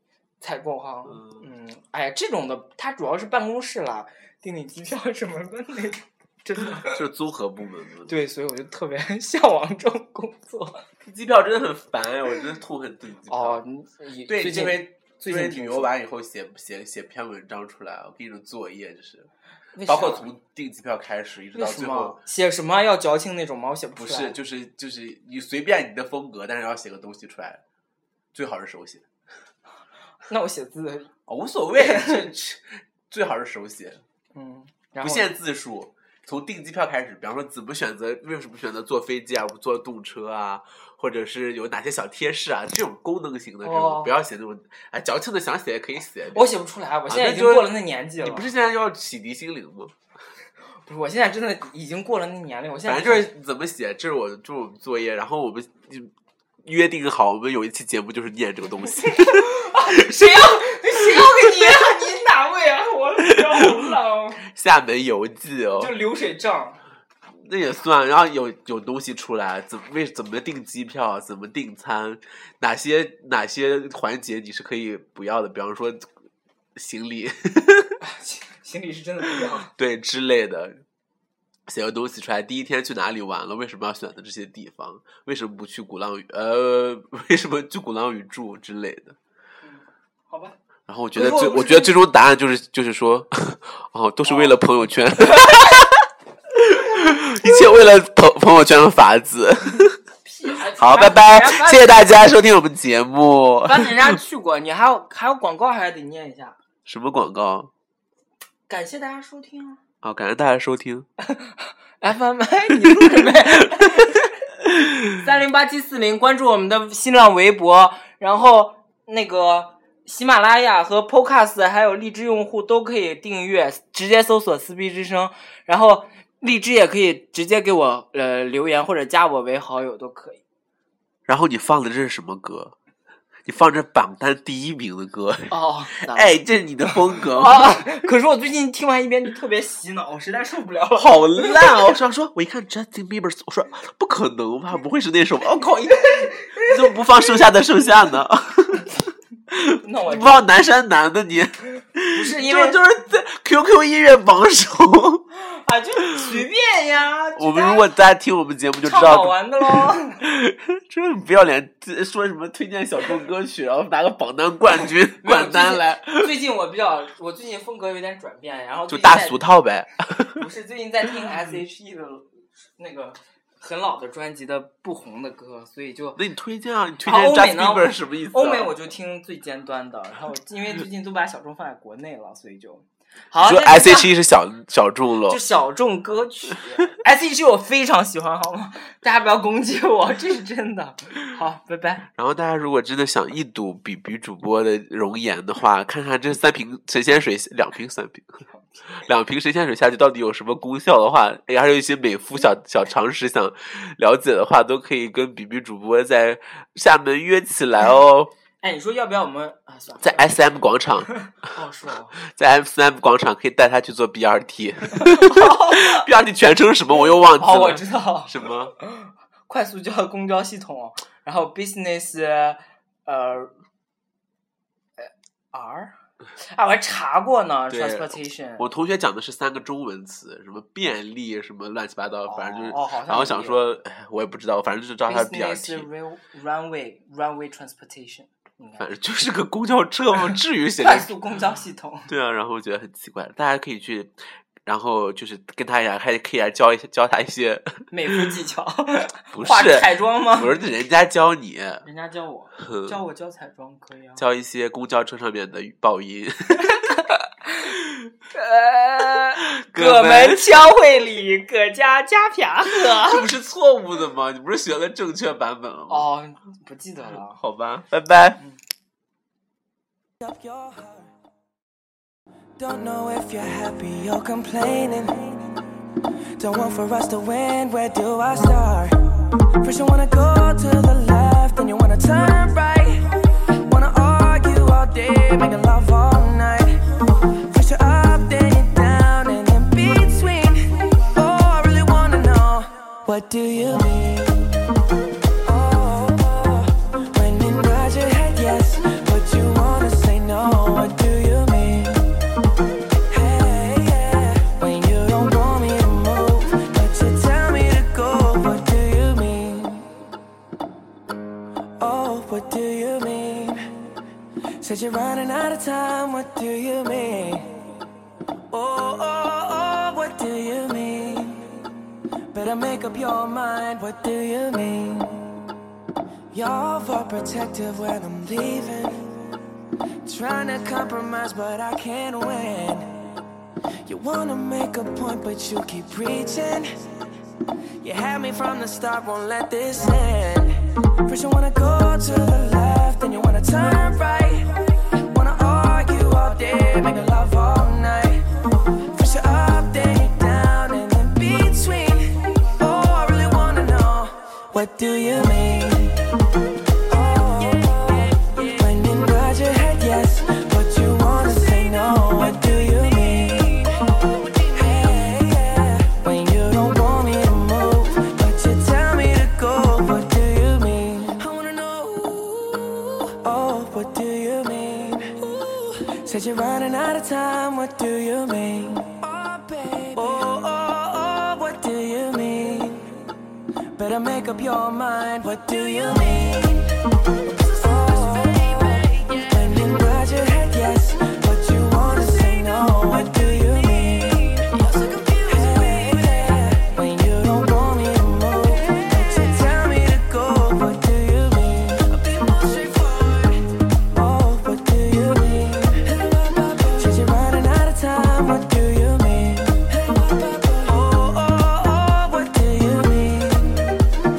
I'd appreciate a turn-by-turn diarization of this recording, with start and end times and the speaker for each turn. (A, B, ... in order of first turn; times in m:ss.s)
0:00.4-0:07.0 A
0:01.0-0:01.4 B
0:06.8-0:08.1 B
0:08.1-0:10.8 A
0:11.0-0:13.6 B
0:13.3-0:15.9 A
0:14.2-0:19.3 B
0:19.7-0:20.3 A
0:19.8-0:22.2 B
0:21.5-0:24.4 A
0:24.0-0:27.6 B
0:28.3-0:29.0 B
0:30.2-0:31.1 A
0:31.3-0:34.0 B
0:31.8-0:32.3 A
0:34.3-0:35.3 A
0:35.0-0:46.5 B
0:43.6-0:44.2 A
0:46.3-0:48.5 A
0:47.1-0:49.9 B
0:50.8-0:53.3 A
0:52.8-0:56.1 B
0:56.6-1:00.4 B
0:59.0-1:04.4 A
1:01.0-1:01.4 B
1:03.2-1:05.9 B
1:05.8-1:06.8 A
1:07.4-1:16.0 B
1:16.7-1:18.0 B
1:18.0-1:19.7 A
1:19.7-1:20.8 B
1:21.7-1:29.2 B
1:29.6-1:30.6 A
1:30.9-1:40.0 B
1:31.1-1:31.9 A
1:34.2-1:34.6 A
1:40.2-1:42.0 A
1:40.8-1:44.2 B
1:43.6-1:46.6 A
1:46.8-1:47.7 B
1:48.7-1:49.8 A
1:50.0-1:51.1 B
1:51.3-1:54.3 A
1:52.7-1:54.1 B
1:55.1-2:10.4 A
2:11.3-2:12.7 B
2:13.4-2:17.9 B
2:15.5-2:16.4 A
2:16.9-2:21.9 A
2:20.9-2:28.9 B
2:25.9-2:27.0 A
2:29.5-2:35.2 B
2:29.8-2:30.4 A
2:32.1-2:32.8 A
2:35.3-2:37.9 A
2:36.1-2:36.4 B
2:37.4-2:46.3 B
2:38.8-2:40.2 A
2:45.2-2:49.5 A
2:48.9-2:50.4 B
2:50.4-2:56.2 A
2:56.2-2:58.7 B
2:57.0-3:04.1 A
3:03.4-3:05.4 B
3:05.3-3:12.1 A
3:12.2-3:28.3 B
3:28.6-3:30.2 A
3:30.0-3:31.1 B
3:31.4-3:32.2 A
3:32.2-3:38.7 B
3:34.9-3:36.0 A
3:37.1-3:43.5 A
3:45.0-3:48.6 A
3:47.7-3:55.9 B
3:52.3-3:53.7 A
3:55.0-3:58.9 A
3:58.8-4:01.1 B
4:00.8-4:02.1 A
4:02.1-4:04.1 B
4:04.6-4:08.2 B
4:07.9-4:10.5 A
4:09.3-4:11.8 B
4:11.8-4:14.2 A
4:12.6-4:13.0 B
4:14.2-4:17.1 B
4:16.6-4:17.1 A
4:17.6-4:18.1 B
4:18.3-4:23.3 A
4:19.4-4:20.6 B
4:22.7-4:26.1 B
4:25.9-4:27.4 A
4:27.4-4:28.4 B
4:30.2-4:31.1 C
4:32.6-4:35.5 C
4:36.4-4:38.9 C
4:39.6-4:46.8 C
4:47.5-4:54.8 C
4:55.4-5:02.2 C
5:03.1-5:09.9 C
5:11.8-5:13.7 C
5:14.6-5:17.7 C
5:18.5-5:21.6 C
5:22.3-5:25.5 C
5:26.3-5:29.1 C
5:30.0-5:32.9 C
5:33.8-5:36.8 C
5:37.8-5:48.2 C
5:48.9-5:56.2 C
5:56.8-6:23.0 C
6:23.7-6:53.8 C